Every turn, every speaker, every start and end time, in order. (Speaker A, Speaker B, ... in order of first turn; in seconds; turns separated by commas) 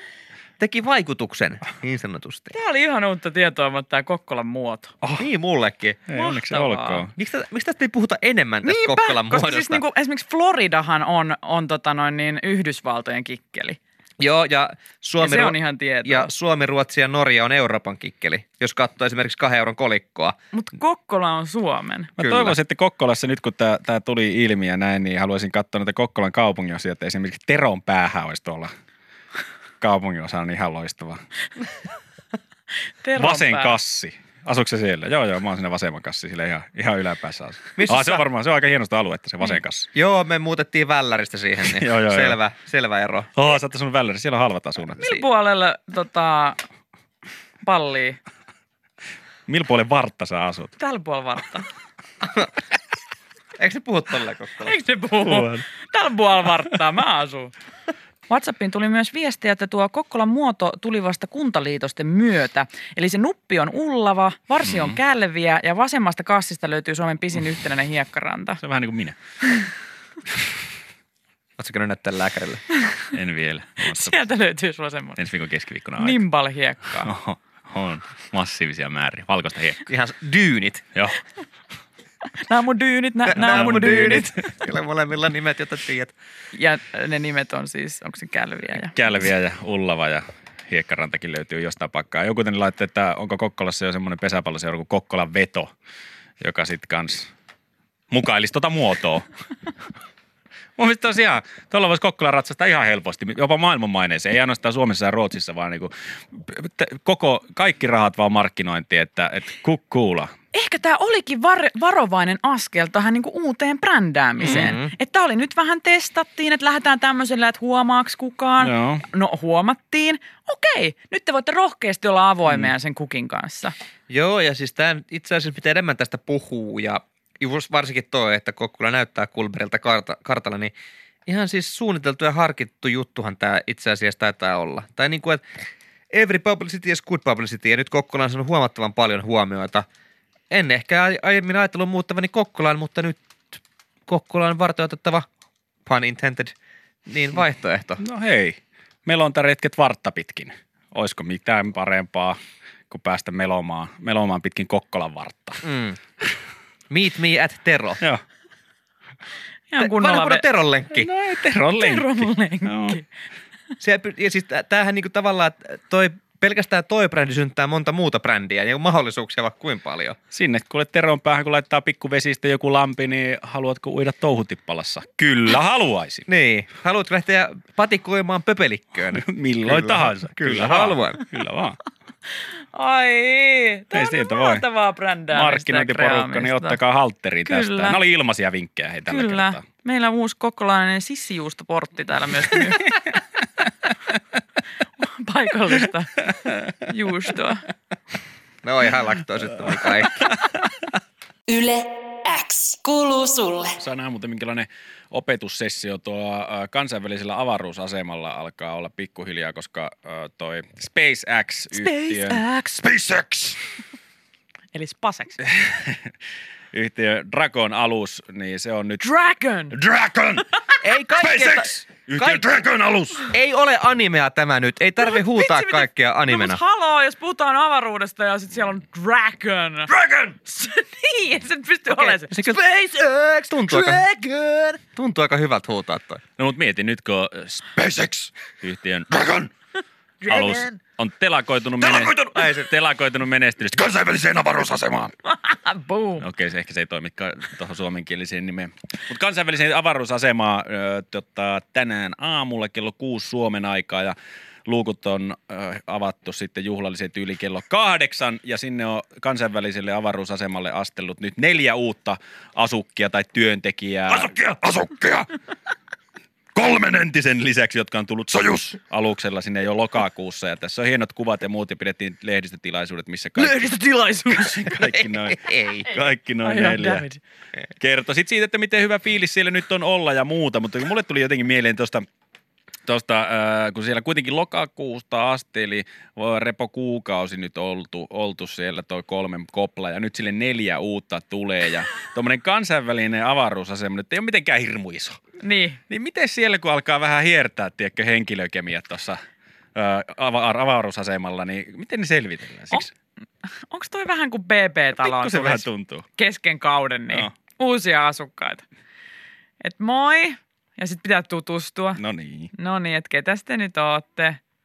Speaker A: 0.6-2.5, Speaker B: 2.5-4.9, Speaker C: 5.0-5.3, Speaker A: 5.2-6.1, Speaker C: 6.1-7.1, Speaker B: 6.1-7.0, Speaker A: 7.1-9.8, Speaker B: 8.6-13.8, Speaker A: 14.2-20.4, Speaker B: 15.2-16.3, Speaker B: 20.5-22.1, Speaker C: 22.2-28.7, Speaker A: 22.2-22.6, Speaker C: 29.8-31.2, Speaker B: 33.0-33.8, Speaker C: 33.1-39.9, Speaker A: 37.8-38.2, Speaker A: 39.9-43.3, Speaker C: 41.6-42.4, Speaker C: 43.4-45.0, Speaker B: 45.0-46.6, Speaker B: 47.6-48.2, Speaker C: 49.5-50.7, Speaker B: 50.8-51.7, Speaker A: 52.2-52.5, Speaker A: 53.6-54.8, Speaker B: 54.6-57.5, Speaker C: 55.2-55.6, Speaker B: 58.3-68.6, Speaker C: 64.6-65.0, Speaker C: 68.6-69.2, Speaker A: 71.6-72.6, Speaker C: 73.1-74.2, Speaker B: 73.8-75.2, Speaker C: 75.2-76.2, Speaker B: 76.0-77.1, Speaker C: 77.0-79.9, Speaker A: 79.9-80.8, Speaker B: 82.3-84.4, Speaker A: 83.3-86.1, Speaker C: 83.4-84.3, Speaker B: 86.5-89.2, Speaker C: 88.8-95.7, Speaker C: 96.4-97.3, Speaker C: 98.1-99.3, Speaker C: 100.8-110.3, Speaker B: 110.5-123.7, Speaker A: 114.4-114.9, Speaker C: 118.6-119.0, Speaker A: 124.1-130.7, Speaker A: 131.3-135.4, Speaker A: 136.1-139.8, Speaker A: 140.5-145.2, Speaker A: 145.8-146.5, Speaker A: 147.1-148.0, Speaker C: 148.0-152.4, Speaker C: 152.9-155.6, Speaker A: 155.6-156.0, Speaker A: 156.9-158.0, Speaker B: 159.7-160.4, Speaker A: 159.8-161.1, Speaker C: 160.9-163.0, Speaker B: 161.8-163.1, Speaker A: 163.8-170.2, Speaker C: 170.3-176.3, Speaker A: 176.3-181.2, Speaker C: 179.1-181.8, Speaker B: 182.7-186.8, Speaker C: 183.9-184.6, Speaker C: 185.3-189.6, Speaker B: 187.4-188.0, Speaker B: 189.1-193.2, Speaker B: 195.0-197.7, Speaker A: 198.6-200.3, Speaker D: 201.5-203.8, Speaker C: 203.8-213.6, Speaker B: 211.7-212.8, Speaker B: 214.7-215.4, Speaker C: 215.5-216.1, Speaker C: 216.7-219.0, Speaker B: 219.0-219.8, Speaker C: 219.7-220.5, Speaker A: 220.8-222.4, Speaker C: 221.2-223.3, Speaker A: 223.3-226.6, Speaker B: 225.0-232.6, Speaker C: 229.9-230.3, Speaker A: 231.9-236.2, Speaker C: 233.7-234.0, Speaker C: 236.4-239.5, Speaker C: 240.2-245.1, Speaker A: 240.3-240.6, Speaker A: 242.1-242.7, Speaker B: 245.3-246.3, Speaker C: 246.2-254.1, Speaker C: 254.7-265.3, Speaker C: 266.5-273.7, Speaker A: 273.6-275.9, Speaker B: 273.7-274.4, Speaker C: 274.3-277.1, Speaker B: 276.4-277.2, Speaker C: 277.8-282.1, Speaker C: 282.9-295.2, Speaker B: 295.4-295.8, Speaker C: 295.9-299.2, Speaker C: 299.7-302.9, Speaker B: 303.4-305.6, Speaker C: 305.0-306.1, Speaker B: 306.2-308.6, Speaker B: 309.6-312.0, Speaker C: 312.0-312.5, Speaker B: 312.5-314.4